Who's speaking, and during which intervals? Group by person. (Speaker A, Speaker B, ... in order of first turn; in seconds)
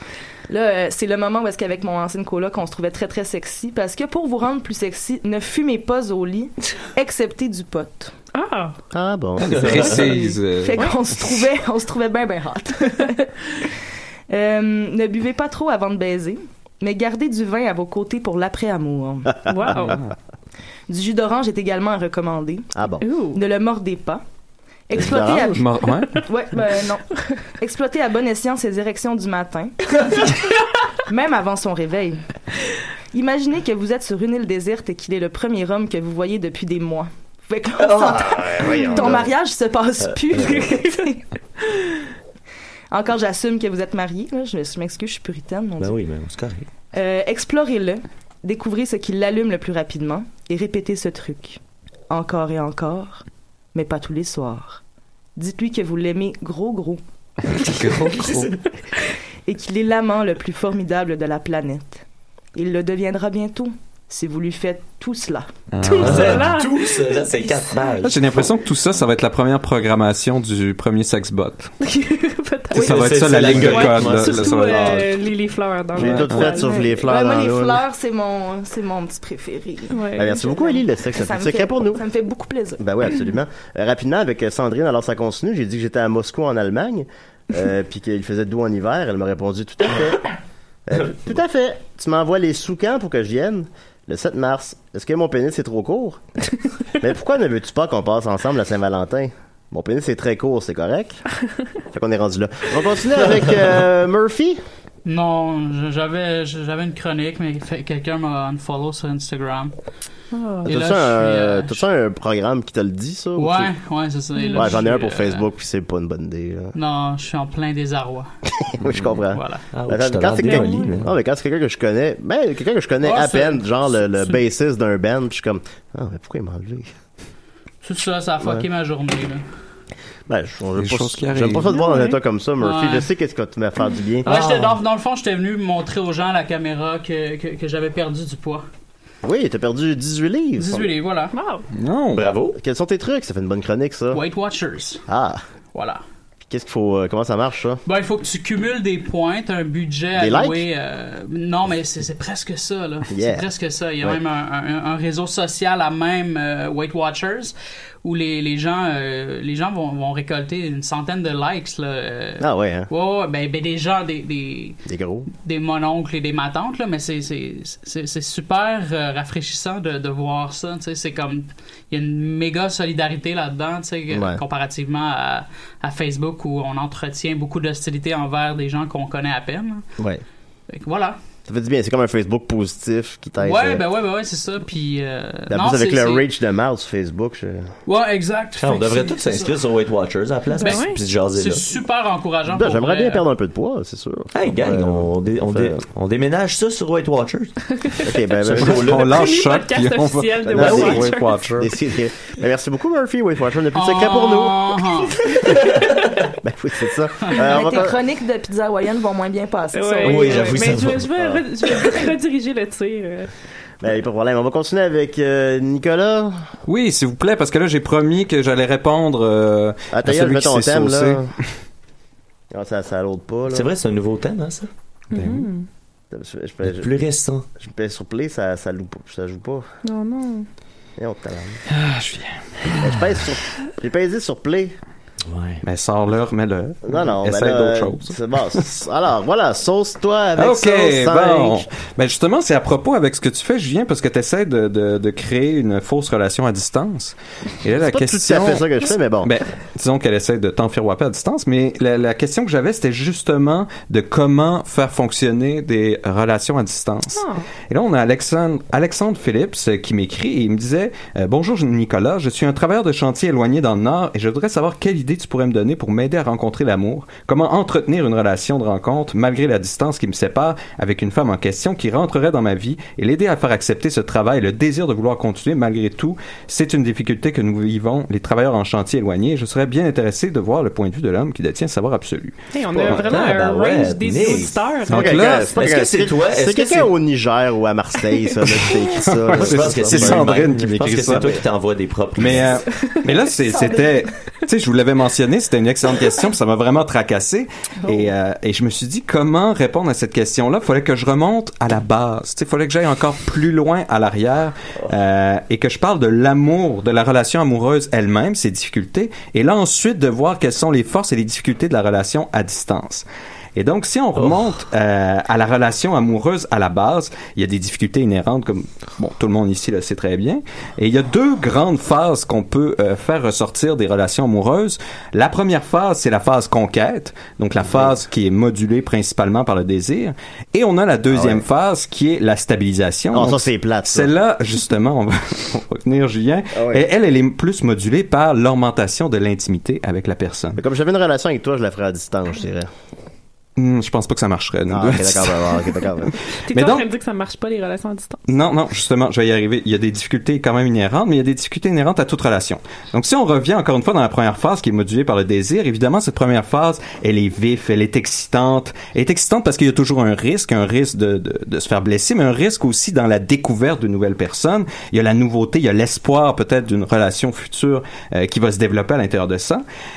Speaker A: 0.5-8.1, 9.9-13.7, 14.3-19.5, 20.9-22.7, 23.3-24.2, 24.9-30.3, 31.1-32.2, 33.1-41.2, 42.9-46.0, 46.9-51.6, 52.1-54.8, 55.4-57.0, 59.5-62.0, 62.5-65.5, 76.4-82.8, 207.4-210.5, 293.5-293.8
Speaker B: 8.3-8.7, 10.2-10.9, 19.4-20.0, 23.0-23.4, 38.7-39.1, 65.8-67.5, 71.8-76.8, 79.9-80.5, 110.3-110.7, 114.4-114.8, 120.4-120.9, 131.7-132.2, 141.3-141.6, 190.6-191.0, 199.1-201.4, 209.7-213.3, 225.1-225.7, 229.8-230.5, 257.1-257.4, 282.5-285.2, 346.5-348.2
Speaker C: 8.9-10.1, 22.7-23.1, 24.9-25.6, 76.0-77.8, 80.2-82.0, 82.8-90.3, 90.9-96.2, 97.0-101.2, 101.9-104.6, 110.7-113.7, 114.5-116.7, 118.6-126.9, 130.3-134.3, 139.2-140.9, 142.6-144.2, 145.1-145.4, 146.4-147.8, 150.2-150.6, 153.1-153.4, 162.4-162.9, 164.9-165.3, 174.1-174.4, 180.0-180.2, 181.5-183.8, 185.5-187.7, 192.5-195.8, 198.0-199.0, 200.5-204.8, 206.4-208.0, 211.1-211.4, 213.8-216.3, 219.9-221.3, 222.5-223.7, 226.1-226.9, 227.6-229.7, 231.0-231.6, 232.8-234.8, 236.8-241.7, 247.8-249.3, 284.9-291.3, 331.1-331.4, 333.1-334.1, 336.5-336.8, 340.6-342.7, 344.7-346.1
Speaker D: 9.4-10.9, 19.8-20.1, 25.6-26.3, 57.5-58.5, 65.7-66.5, 68.0-71.7, 72.7-75.2, 76.0-76.5, 130.8-131.7, 141.7-142.3, 198.6-201.7, 216.7-221.2, 225.1-225.5, 231.7-232.8, 235.6-238.1, 240.4-248.7, 249.2-283.1, 284.9-285.6, 288.6-291.3, 292.2-340.6, 343.6-345.7, 346.5-346.9, 348.3-369.6
Speaker E: 9.5-10.1, 37.8-39.3, 40.0-40.6, 45.8-46.7, 58.2-58.5, 66.0-68.5, 72.7-74.7, 119.7-121.1, 134.3-134.7, 142.1-142.6, 188.6-191.7, 194.3-197.5, 198.4-199.2, 210.0-211.1, 223.5-224.7, 226.6-227.4, 235.3-235.6, 282.9-284.6, 285.5-286.9, 289.3-292.5
Speaker F: 105.0-109.7, 110.6-111.8, 113.4-115.5, 116.7-118.3, 119.3-119.6, 123.0-124.4, 127.8-129.4, 132.6-133.1, 134.2-138.6, 140.6-141.3, 144.1-145.0, 145.7-146.0, 147.9-164.8, 165.4-179.8, 180.7-181.2, 183.4-186.3, 187.9-189.6, 190.6-193.3, 203.7-205.2